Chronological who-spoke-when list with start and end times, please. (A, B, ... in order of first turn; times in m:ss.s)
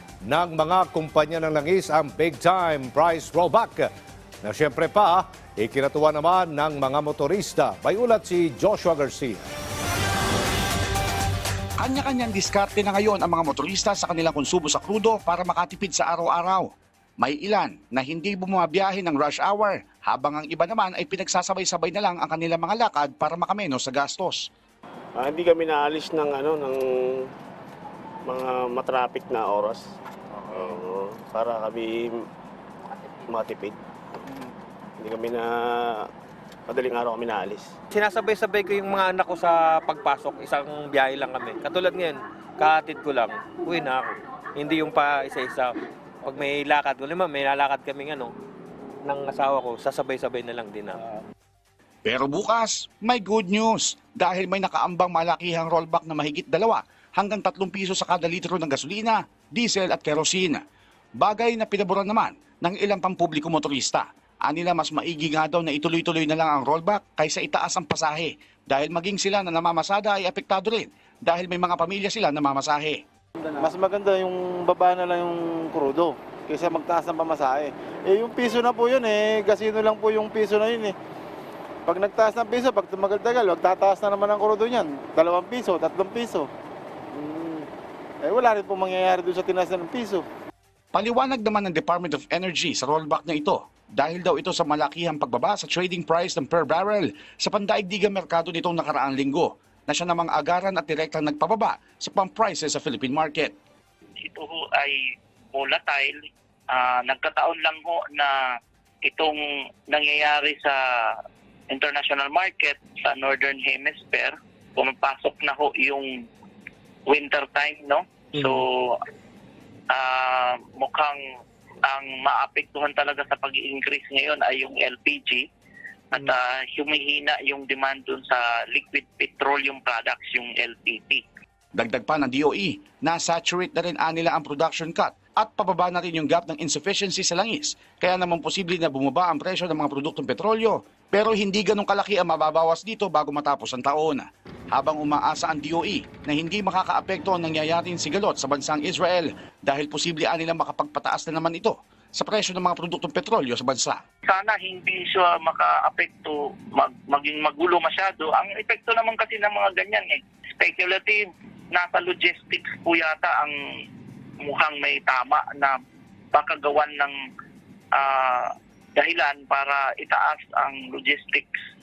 0:00.3-0:03.9 A
0:04.4-0:09.5 A
0:11.8-0:16.7 B
0:17.2-0:24.5 B
0:25.2-0:27.2 C
0:28.3-0:29.8 C
0:30.5-0:32.2 C
0:33.3-0:33.8 C
0:35.0-0:36.1 C
0:36.7-0:37.7 C
0:37.9-0:48.3 D
0:49.0-0:51.2 D
0:52.0-1:00.6 B
1:01.2-1:13.0 B
1:13.6-1:20.9 E
1:21.9-1:26.5 E
1:27.1-1:27.7 E
1:28.2-1:30.2 E
1:30.9-1:43.5 B
1:44.3-1:45.0 F
1:45.5-1:46.2 F
1:46.7-1:48.3 F
1:49.0-1:49.4 F
1:49.9-1:51.2 F
1:51.7-1:56.1 F
1:57.1-1:59.0 F
1:59.9-2:01.2 F
2:01.9-2:05.4 F
2:06.1-2:11.2 F
2:11.8-2:34.0 B
2:34.3-2:43.5 F
2:44.4-2:45.8 F
2:46.3-2:47.2 F
2:47.9-2:51.5 F